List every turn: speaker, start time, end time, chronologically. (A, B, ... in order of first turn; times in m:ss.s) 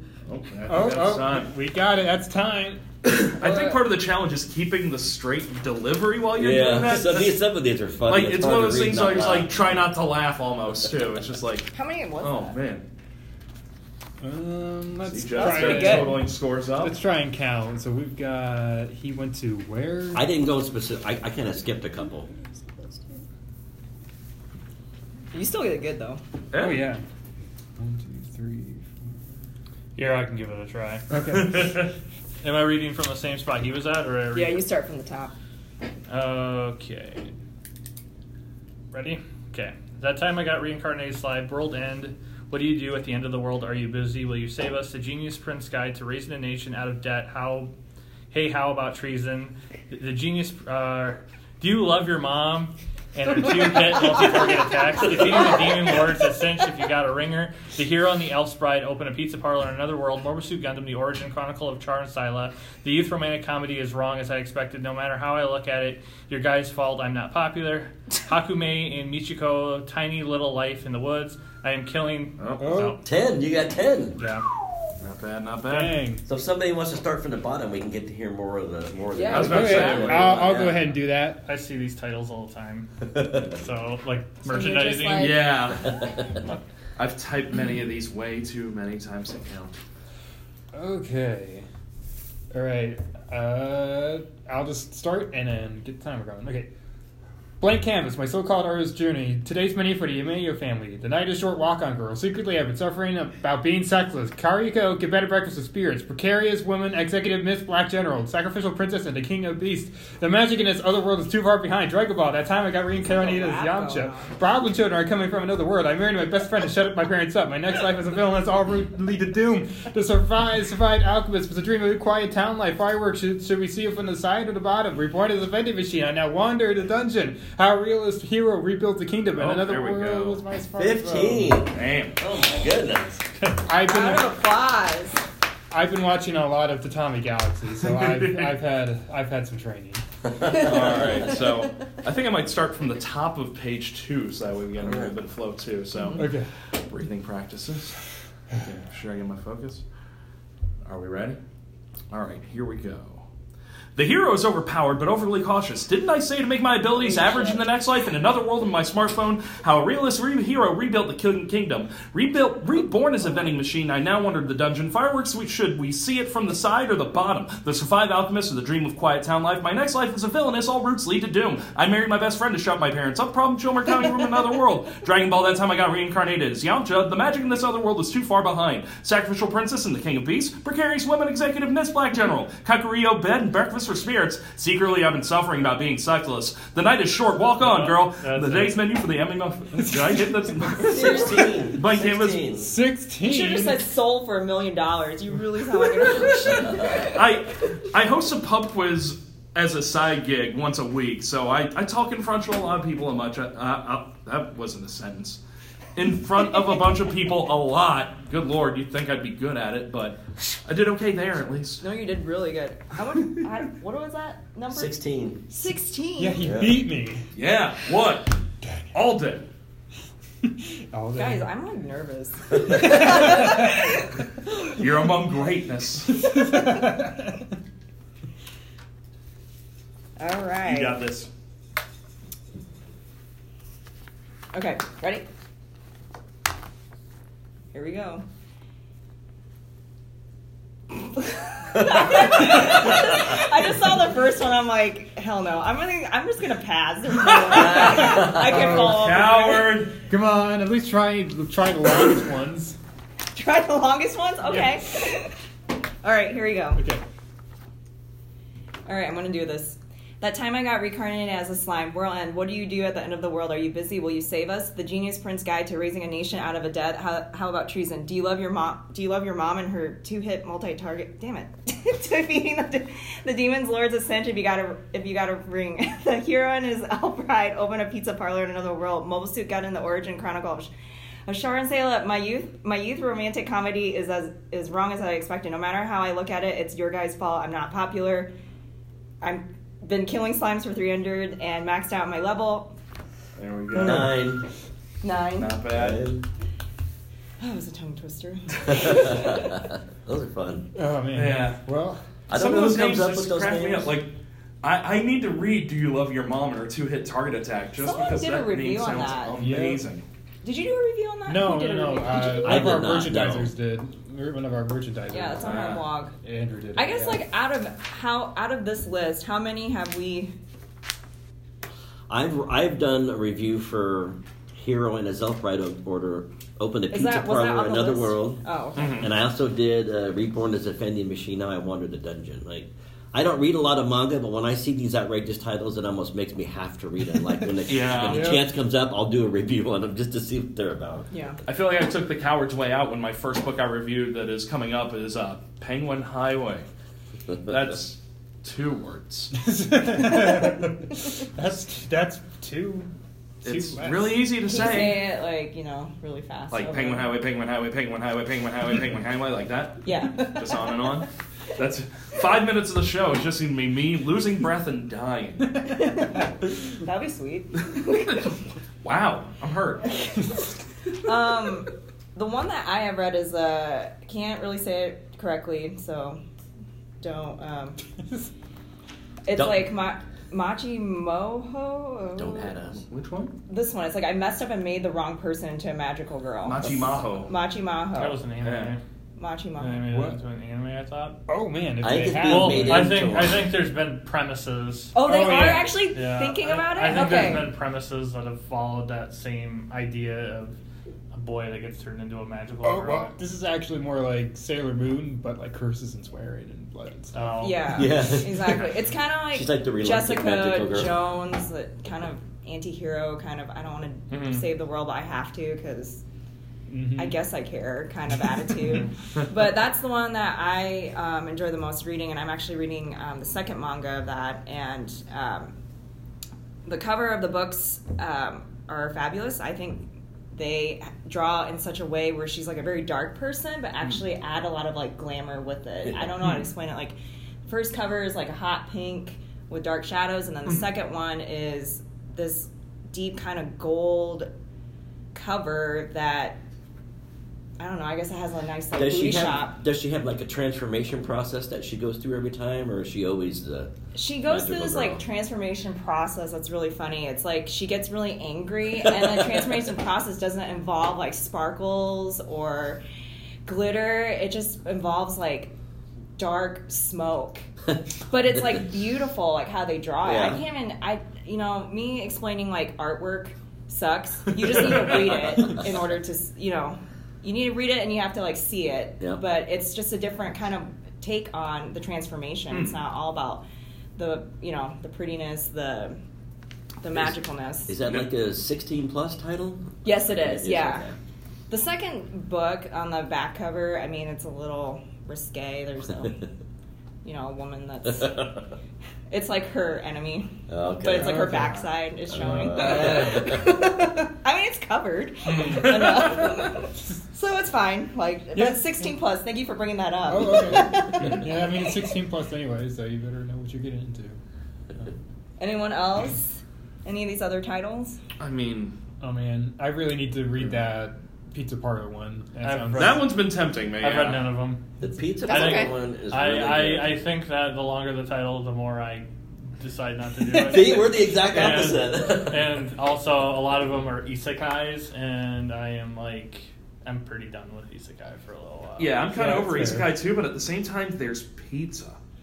0:00.3-0:01.5 A
0:00.7-0:02.8 B
0:03.0-0:07.4 A
0:03.4-0:03.8 C
0:06.3-0:09.6 D
0:08.1-0:12.9 A
0:11.7-0:12.6 C
0:14.2-0:16.3 B
0:15.0-0:17.0 A
0:15.4-0:16.2 C
0:16.8-0:20.3 B
0:20.2-0:22.3 D
0:25.3-0:26.2 C
0:26.5-0:26.9 A
0:26.6-0:27.0 B
0:27.8-0:29.2 B
0:30.0-0:31.9 E
0:31.1-0:31.8 B
0:32.4-0:34.6 E
0:34.3-0:35.3 C
0:36.1-0:37.3 E
0:38.9-0:47.7 E
0:48.3-1:13.0 E
1:12.4-1:12.8 A
1:12.6-1:13.0 B
1:13.0-1:14.2 D
1:14.2-1:14.4 E
1:15.0-1:16.0 A
1:15.7-1:16.2 B
1:16.2-1:20.9 D
1:19.1-1:19.9 C
1:19.3-1:20.5 A
1:19.3-1:21.4 B
1:21.4-1:22.9 E
1:23.1-1:23.6 D
1:23.5-1:25.4 E
1:24.4-1:25.5 C
1:25.2-1:26.0 A
1:25.9-1:26.4 D
1:27.0-1:29.7 A
1:30.7-1:31.7 B
1:32.5-1:36.7 B
1:37.6-2:11.6 B
1:53.0-1:54.4 C
2:09.4-2:10.4 A
2:10.8-2:13.2 D
2:11.7-2:12.2 A
2:13.6-2:14.3 B
2:13.8-2:15.2 C
2:15.7-2:20.0 B
2:18.0-2:18.4 A
2:20.4-2:21.2 D
2:20.5-2:28.0 A
2:24.8-2:25.1 D
2:26.2-2:26.5 B
2:28.6-2:29.8 A
2:30.9-2:31.4 A
2:32.1-2:33.3 A
2:34.0-3:12.5 A
2:37.1-2:37.6 C
3:07.6-3:08.8 E
3:09.8-3:11.0 B
3:10.8-3:11.6 C
3:10.8-3:12.7 D
3:12.6-3:13.8 B
3:13.2-3:17.2 C
3:16.5-3:17.2 D
3:16.7-3:25.4 A
3:26.0-3:31.8 A
3:31.8-3:36.5 C
3:34.7-3:35.4 D
3:36.2-3:37.3 B
3:36.4-3:36.8 D
3:37.3-3:38.4 A
3:38.9-3:39.5 A
3:40.4-3:41.5 B
3:41.2-3:44.1 C
3:42.6-3:43.9 B
3:44.7-3:46.3 A
3:46.2-3:47.4 B
3:50.2-3:51.0 C
3:50.6-3:51.3 A
3:54.5-3:55.3 C
3:57.7-3:58.2 C
4:01.2-4:09.8 C
4:07.3-4:10.0 A
4:07.8-4:09.1 B
4:08.0-4:08.4 D
4:10.0-4:12.8 B
4:13.3-4:15.4 C
4:14.5-4:14.8 B
4:16.0-4:16.8 C
4:16.8-4:17.0 B
4:18.9-4:40.7 C
4:41.3-4:48.3 C
4:49.2-4:52.8 C
4:53.4-4:54.1 A
4:53.8-4:54.1 B
4:53.8-4:54.4 D
4:55.0-4:55.5 C
4:55.4-4:56.2 A
4:55.7-4:56.2 D
4:57.4-4:59.5 C
4:58.6-5:00.7 D
5:00.8-5:02.0 B
5:01.1-5:01.6 A
5:02.3-5:03.9 D
5:02.3-5:10.0 A
5:07.8-5:09.4 C
5:09.4-5:09.9 B
5:10.4-5:12.9 C
5:11.3-5:17.2 B
5:12.4-5:13.5 D
5:15.1-5:16.1 C
5:15.4-5:15.8 A
5:16.8-5:20.3 C
5:22.1-5:41.1 D
5:26.9-5:29.0 C
5:28.8-5:29.1 A
5:37.3-5:38.5 B
5:37.7-5:38.4 A
5:41.1-5:41.4 C
5:41.5-5:46.7 A
5:47.5-5:49.4 A
5:49.4-5:52.9 B
5:53.4-5:54.2 B
5:53.4-5:55.1 A
5:54.4-5:57.1 C
5:56.5-6:05.7 A
5:59.8-6:01.0 C
6:05.7-6:08.3 C
6:08.8-6:10.0 A
6:10.9-6:16.2 C
6:17.0-6:17.8 C
6:19.2-6:22.6 C
6:19.4-6:19.7 D
6:22.2-6:22.9 D
6:22.9-6:23.4 A
6:23.5-6:28.2 C
6:26.4-6:27.3 A
6:28.0-6:28.8 E
6:28.4-6:28.8 A
6:29.2-6:29.8 C
6:29.6-6:31.2 E
6:29.9-6:30.2 B
6:31.3-6:33.1 B
6:31.8-6:33.5 D
6:32.1-6:35.0 E
6:34.9-6:37.5 C
6:35.0-6:35.8 B
6:35.8-6:40.6 E
6:41.1-6:43.1 E
6:42.6-6:47.3 B
6:47.1-6:48.0 E
6:47.4-6:56.0 C
6:47.7-6:48.7 D
6:49.3-6:51.0 D
6:54.1-6:54.4 E
6:56.7-6:57.2 B
6:57.0-7:05.5 C
7:06.6-7:24.3 C
7:25.1-7:26.4 C
7:27.6-7:29.6 C
7:28.8-7:33.7 D
7:33.9-7:42.8 C
7:34.3-7:35.0 D
7:43.4-7:45.5 C
7:46.2-7:47.5 C
7:48.1-8:03.4 C
7:50.0-7:50.4 D
7:54.5-7:54.8 A
7:54.9-7:55.6 D
8:02.5-8:02.8 A
8:04.0-8:06.0 C
8:06.8-8:07.8 C
8:07.7-8:11.0 D
8:09.8-8:10.9 C
8:11.5-8:16.3 C
8:17.0-8:18.4 C
8:18.0-8:18.4 D
8:19.1-8:31.4 C
8:20.5-8:21.4 D
8:21.0-8:21.7 B
8:22.1-8:23.6 D
8:22.2-8:23.4 B
8:28.4-8:28.6 B
8:30.1-8:34.2 B
8:35.4-8:38.0 C
8:38.2-8:38.8 A
8:39.0-8:43.0 B
8:42.4-8:43.0 E
8:42.8-8:44.3 A
8:43.8-8:44.6 E
8:44.8-8:47.0 D
8:45.2-8:45.8 C
8:45.3-8:59.0 E
8:50.3-8:52.5 D
8:58.8-9:02.0 A
8:59.1-8:59.9 B